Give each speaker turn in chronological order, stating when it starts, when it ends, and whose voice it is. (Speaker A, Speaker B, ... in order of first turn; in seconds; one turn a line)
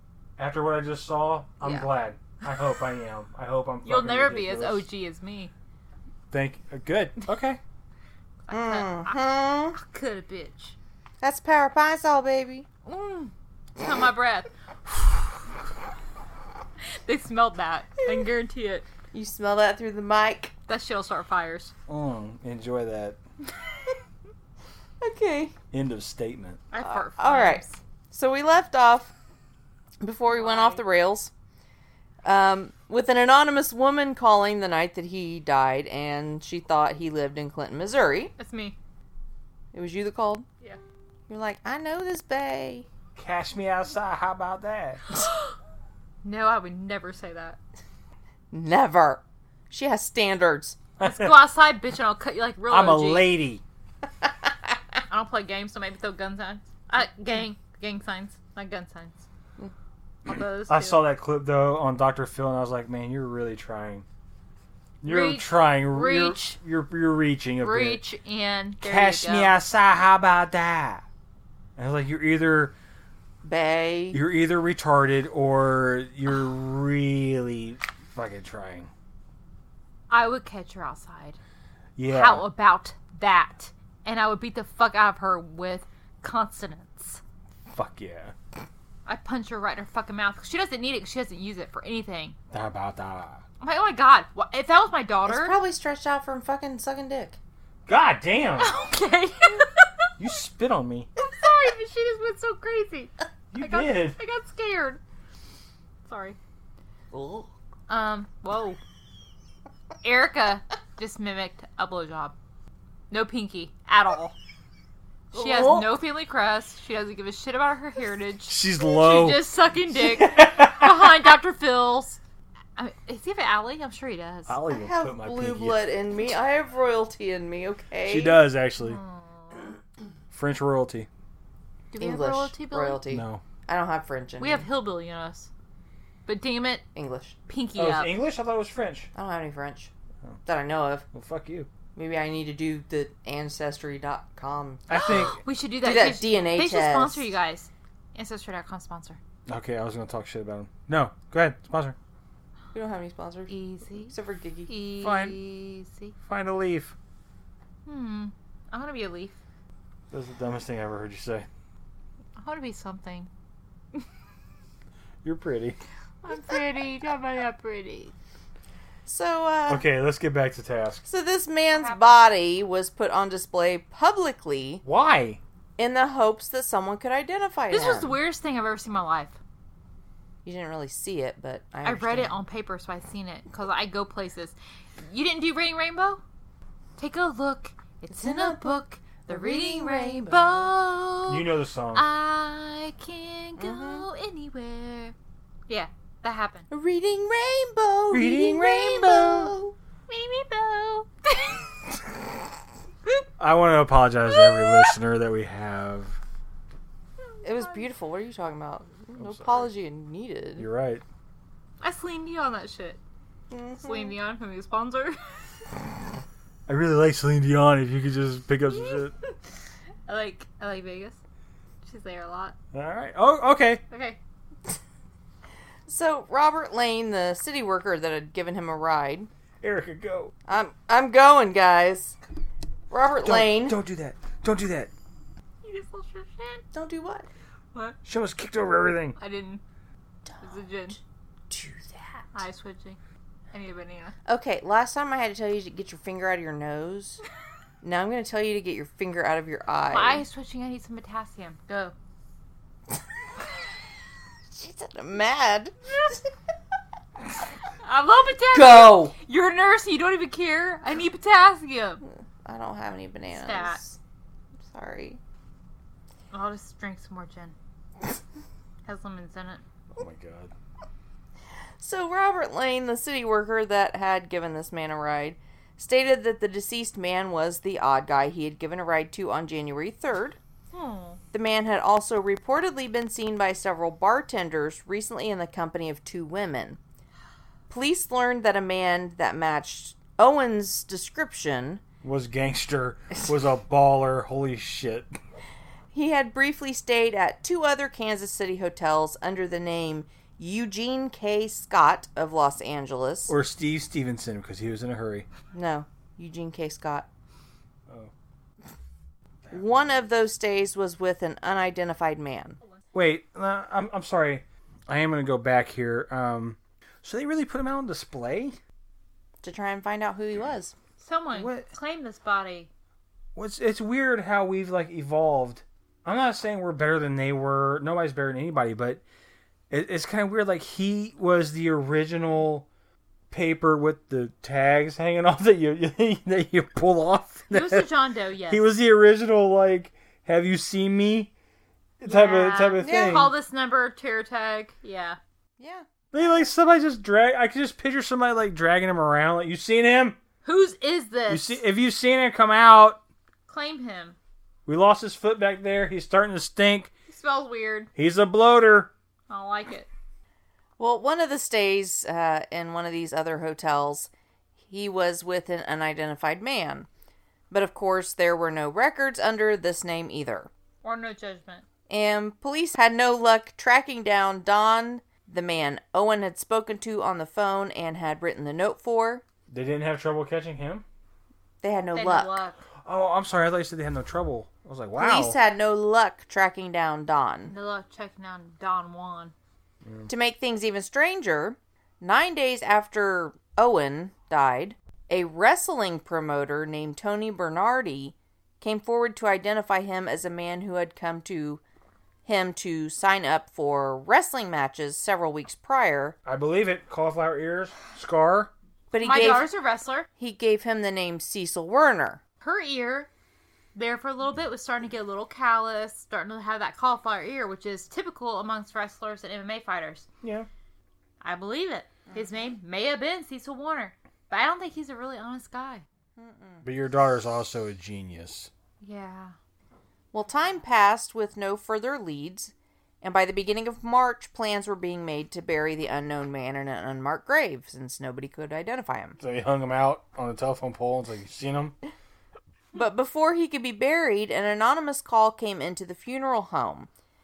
Speaker A: 0.4-4.8
Speaker B: 1.6-1.9
Speaker C: 3.8-5.5
Speaker A: 6.3-7.6
Speaker C: 8.4-9.2
Speaker B: 8.5-9.8
Speaker C: 9.7-10.8
Speaker B: 11.2-12.7
Speaker C: 12.8-15.2
Speaker C: 17.0-18.9
Speaker B: 19.1-20.5
Speaker C: 20.7-21.7
Speaker A: 21.9-23.2
Speaker B: 25.0-25.5
Speaker A: 25.7-26.6
Speaker C: 26.7-27.8
Speaker B: 26.8-29.1
Speaker B: 30.0-31.3
Speaker C: 30.3-30.8
Speaker B: 32.2-38.3
Speaker C: 38.4-38.8
Speaker B: 39.7-40.4
Speaker B: 41.3-42.9
Speaker A: 43.1-45.0
Speaker C: 46.2-47.6
Speaker B: 48.5-50.8
Speaker A: 51.0-51.4
Speaker C: 51.0-53.3
Speaker A: 52.7-53.6
Speaker C: 55.1-59.2
Speaker C: 60.2-61.0
Speaker A: 60.7-64.0
Speaker A: 65.0-68.0
Speaker C: 65.0-66.5
Speaker C: 67.6-69.5
Speaker A: 68.8-71.0
Speaker A: 71.8-72.7
Speaker B: 73.4-74.2
Speaker A: 74.1-78.9
Speaker C: 80.1-81.4
Speaker A: 82.0-82.5
Speaker C: 82.1-87.2
Speaker A: 87.7-88.3
Speaker C: 89.0-92.3
Speaker A: 92.5-93.4
Speaker C: 93.6-95.6
Speaker B: 95.2-97.4
Speaker A: 97.9-98.7
Speaker C: 98.6-100.1
Speaker A: 100.2-101.1
Speaker C: 101.2-105.0
Speaker A: 103.5-104.2
Speaker C: 106.0-106.4
Speaker B: 107.1-107.5
Speaker C: 107.9-108.8
Speaker C: 110.0-112.3
Speaker C: 113.1-114.3
Speaker B: 115.3-115.9
Speaker C: 115.3-122.2
Speaker A: 118.5-119.4
Speaker A: 119.9-121.1
Speaker C: 122.8-124.6
Speaker A: 124.5-125.8
Speaker B: 124.7-128.4
Speaker A: 128.0-129.0
Speaker C: 128.8-129.7
Speaker A: 130.3-131.1
Speaker C: 131.9-133.0
Speaker B: 132.0-134.7
Speaker A: 133.1-133.4
Speaker C: 134.4-135.5
Speaker C: 136.2-136.8
Speaker B: 136.9-137.4
Speaker C: 137.5-138.1
Speaker A: 137.8-139.1
Speaker B: 139.1-139.9
Speaker B: 140.4-141.1
Speaker A: 141.1-141.7
Speaker B: 141.9-144.9
Speaker A: 144.9-145.4
Speaker C: 144.9-149.2
Speaker B: 145.8-147.3
Speaker A: 149.5-151.9
Speaker B: 152.7-154.7
Speaker C: 153.5-154.1
Speaker C: 154.7-156.1
Speaker A: 155.0-155.4
Speaker A: 156.2-156.9
Speaker C: 157.8-159.4
Speaker A: 160.1-161.5
Speaker C: 162.4-163.3
Speaker A: 165.2-165.8
Speaker C: 166.2-168.1
Speaker B: 169.1-169.8
Speaker A: 169.7-171.0
Speaker B: 171.1-174.8
Speaker C: 171.7-172.2
Speaker A: 174.8-175.4
Speaker B: 175.8-178.2
Speaker C: 177.7-179.4
Speaker B: 180.4-182.4
Speaker C: 181.8-186.2
Speaker C: 187.0-195.1
Speaker B: 188.1-190.7
Speaker A: 191.3-192.0
Speaker B: 193.6-194.1
Speaker C: 195.7-196.7
Speaker B: 196.7-199.7
Speaker A: 198.1-199.5
Speaker C: 200.1-201.8
Speaker A: 203.4-206.2
Speaker C: 204.3-204.9
Speaker C: 207.3-207.9
Speaker B: 207.4-210.7
Speaker A: 209.2-209.7
Speaker A: 210.6-211.0
Speaker C: 211.8-213.0
Speaker B: 213.5-214.1
Speaker C: 213.8-215.7
Speaker A: 216.7-219.1
Speaker C: 218.7-219.3
Speaker C: 220.1-221.2
Speaker C: 221.8-222.6
Speaker A: 222.7-223.8
Speaker C: 223.9-224.2
Speaker B: 225.9-229.3
Speaker A: 229.6-230.3
Speaker B: 230.5-232.2
Speaker B: 232.9-233.8
Speaker A: 233.2-234.9
Speaker C: 235.6-236.6
Speaker B: 236.7-237.3
Speaker A: 238.0-239.2
Speaker C: 239.2-239.6
Speaker B: 240.2-241.0
Speaker C: 240.4-241.0
Speaker B: 241.5-242.3
Speaker C: 242.3-243.0
Speaker C: 243.5-244.1
Speaker B: 244.2-247.2
Speaker B: 247.8-250.2
Speaker C: 249.9-251.9
Speaker B: 254.5-256.1
Speaker C: 257.8-262.0
Speaker B: 258.5-259.1
Speaker B: 262.0-264.0
Speaker C: 263.3-263.8
Speaker B: 264.6-265.2
Speaker C: 266.3-267.5
Speaker C: 268.8-269.6
Speaker A: 269.9-270.5
Speaker B: 271.8-280.4
Speaker C: 280.7-281.2
Speaker B: 281.3-286.8
Speaker B: 287.7-291.8
Speaker A: 292.0-295.1
Speaker B: 295.9-303.3
Speaker A: 303.3-305.3
Speaker B: 305.5-307.1
Speaker A: 309.4-310.1
Speaker B: 309.5-312.6
Speaker A: 312.9-318.6
Speaker B: 319.4-320.7
Speaker C: 321.0-322.7
Speaker A: 321.3-321.7
Speaker A: 323.4-329.0
Speaker A: 329.7-332.7
Speaker A: 333.3-337.9
Speaker C: 337.5-338.6
Speaker A: 338.5-341.3
Speaker A: 342.0-343.3
Speaker C: 342.0-345.2
Speaker B: 342.8-343.3
Speaker B: 345.6-345.9
Speaker A: 346.1-350.2
Speaker C: 350.4-351.6
Speaker A: 351.3-353.0
Speaker C: 353.5-354.2
Speaker A: 354.6-356.9
Speaker C: 357.1-357.9
Speaker A: 357.9-358.9
Speaker C: 359.3-359.9
Speaker B: 360.8-364.1
Speaker B: 364.7-366.9
Speaker B: 367.5-370.5
Speaker C: 370.8-371.6
Speaker B: 371.9-379.2
Speaker A: 379.5-380.8
Speaker B: 381.6-382.4
Speaker C: 381.9-382.6
Speaker A: 382.8-385.4
Speaker B: 384.9-387.5
Speaker C: 387.5-389.3
Speaker A: 389.8-390.1
Speaker B: 390.1-401.6
Speaker B: 402.2-406.1
Speaker A: 406.2-408.5
Speaker B: 408.9-409.5
Speaker C: 409.0-410.1
Speaker B: 410.2-412.2
Speaker C: 412.4-413.1
Speaker C: 413.7-420.1
Speaker A: 420.2-420.5
Speaker C: 421.2-425.8
Speaker B: 426.2-426.6
Speaker A: 426.6-428.5
Speaker C: 428.8-429.4
Speaker B: 430.1-439.2
Speaker A: 439.2-441.7
Speaker B: 442.7-446.9